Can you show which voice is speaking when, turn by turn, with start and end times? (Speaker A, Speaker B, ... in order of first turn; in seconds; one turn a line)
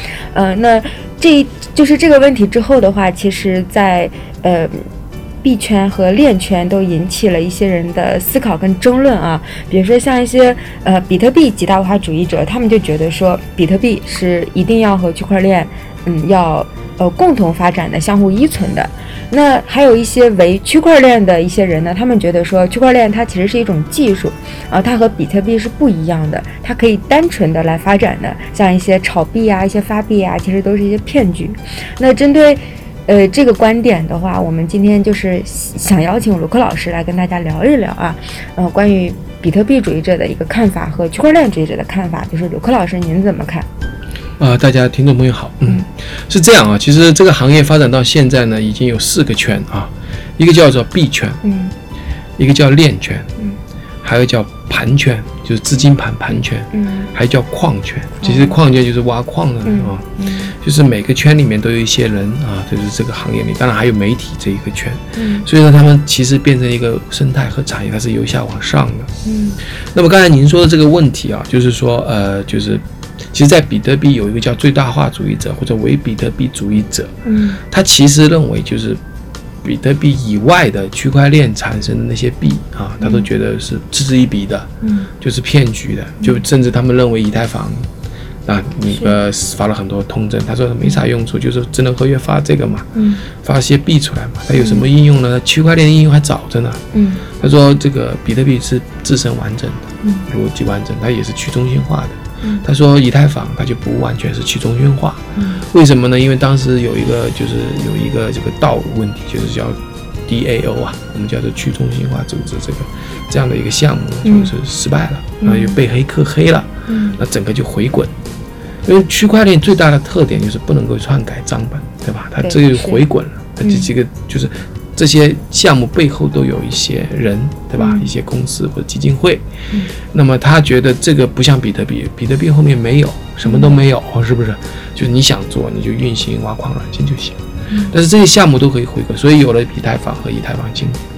Speaker A: 0.3-4.9
Speaker A: 5.4-43.7
Speaker B: 44.4-51.4
Speaker A: 51.4-51.7
Speaker B: 52.4-53.3
Speaker B: 54.0-69.1
Speaker A: 56.7-57.1
Speaker A: 58.2-58.6
Speaker A: 59.6-60.5
Speaker A: 65.2-65.5
Speaker A: 69.2-69.6
Speaker B: 69.9-77.1
Speaker A: 77.2-77.6
Speaker B: 77.7-79.0
Speaker B: 79.6-84.7
Speaker A: 83.0-83.3
Speaker A: 84.8-85.1
Speaker B: 85.2-87.8
Speaker B: 88.5-92.9
Speaker A: 88.9-89.2
Speaker A: 92.9-93.2
Speaker B: 93.4-96.8
Speaker A: 94.5-94.9
Speaker A: 96.9-97.2
Speaker B: 97.4-118.1
Speaker A: 100.0-100.3
Speaker A: 105.3-105.6
Speaker A: 114.2-114.5
Speaker A: 115.4-115.8
Speaker A: 116.9-117.2
Speaker B: 118.8-129.4
Speaker A: 122.4-123.0
Speaker A: 123.6-123.9
Speaker A: 127.8-128.1
Speaker B: 130.1-141.0
Speaker A: 133.4-133.8